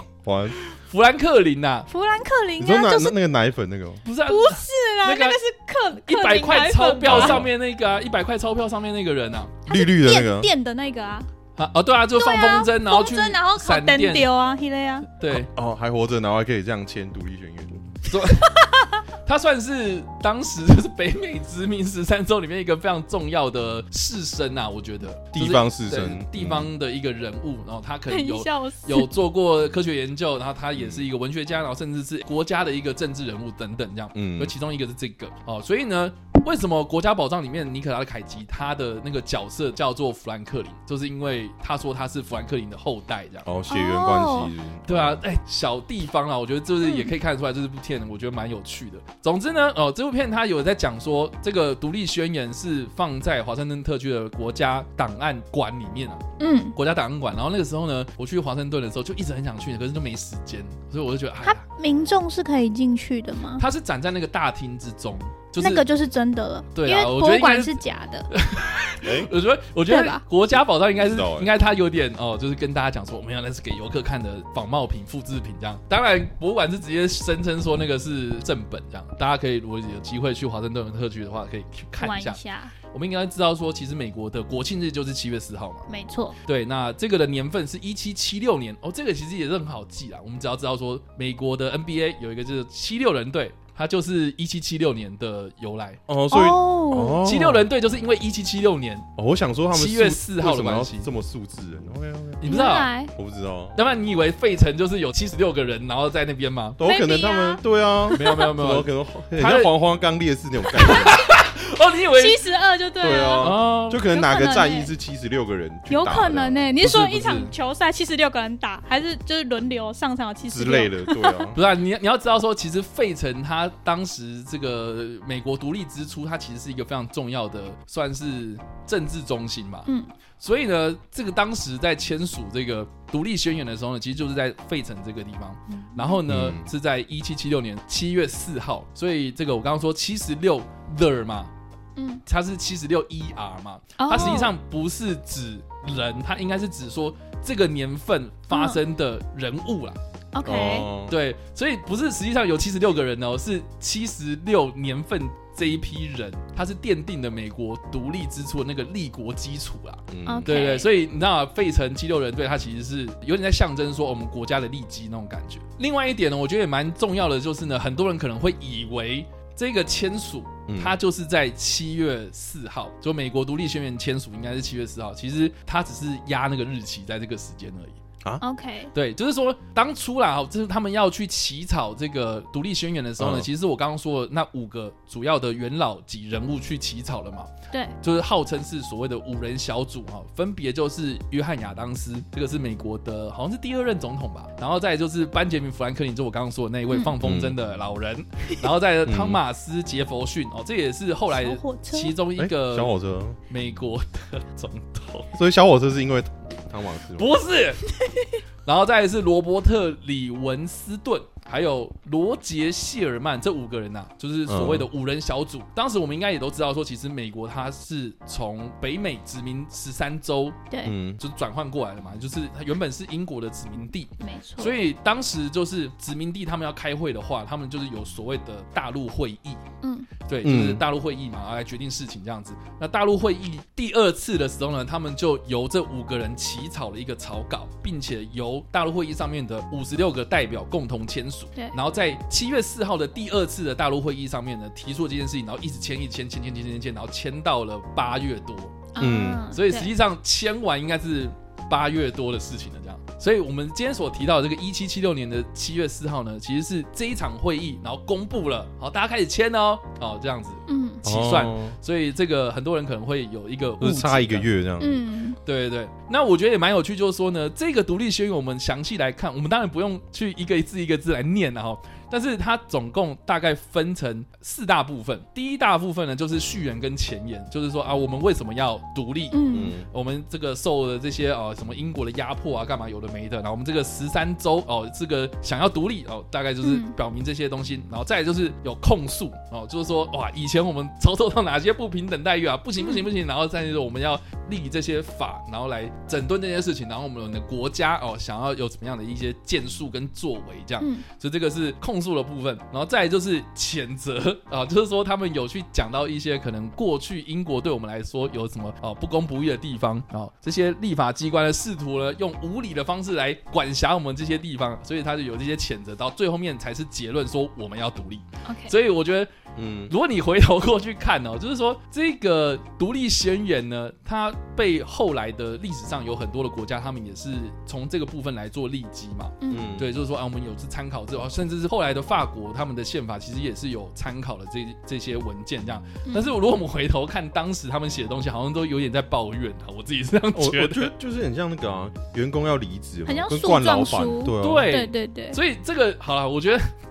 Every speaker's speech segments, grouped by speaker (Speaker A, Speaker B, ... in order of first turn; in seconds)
Speaker A: 0.2-0.6, 2.6-4.0, 7.1-7.5, 9.7-10.5, 15.5-18.0, 25.3-26.7, 30.8-31.1, 34.1-34.5, 43.5-45.2, 69.0-69.3, 70.9-71.5, 96.1-97.7, 99.2-103.8, 106.8-111.2, 113.0-116.7, 120.5-121.6, 136.3-136.7, 144.2-144.4, 150.4-151.2, 160.1-160.6, 170.7-171.0, 183.2-183.5, 197.2-197.6, 199.1-199.4, 202.4-203.4, 205.3-207.3, 214.5-214.9, 220.8-221.2, 230.4-230.8, 249.0-249.5, 261.0-261.8, 263.8-265.0, 279.5-279.9, 319.6-319.9, 329.5-330.0, 340.4-344.7
Speaker B: 0.5-1.9, 4.0-5.4, 6.0-9.6, 11.6-14.3, 15.2-15.5, 18.1-18.5, 19.2-43.5, 44.9-56.2, 56.8-61.6, 63.6-65.9, 66.7-67.8, 68.3-82.4, 82.9-85.9, 86.5-96.0, 97.2-99.1, 99.7-101.1, 102.4-102.9, 103.8-106.8, 108.1-109.7, 110.8-112.4, 113.4-114.0, 116.8-117.5, 121.5-141.5, 142.3-150.0, 151.1-178.0, 178.9-187.5, 188.0-202.9, 203.5-205.3, 207.2-207.9, 208.7-220.6, 221.2-229.6, 230.3-248.9, 249.5-264.5, 265.4-319.3, 319.9-340.9, 344.4-346.6
Speaker C: 1.9-3.1, 4.3-7.4, 9.7-11.3, 12.2-15.1, 18.4-19.0, 28.1-29.1, 43.7-44.5, 46.8-47.1, 56.4-56.8, 61.4-63.6, 65.6-68.3, 69.9-70.2, 82.0-82.8, 85.9-86.4, 96.3-97.2, 102.5-103.1, 106.8-107.6, 112.1-113.5, 114.0-114.9, 115.9-121.5, 129.9-130.1, 142.0-142.2, 144.0-144.5, 148.5-148.8, 150.3-150.9, 160.3-160.9, 178.4-178.9, 196.9-197.2, 201.3-202.2, 220.7-221.0, 224.2-224.8, 229.8-230.1, 248.9-249.9, 260.7-261.1, 264.8-265.4, 279.3-279.8, 286.6-286.9, 292.8-293.1, 300.8-301.1, 318.4-318.7, 329.4-329.7, 336.1-336.3, 343.1-345.4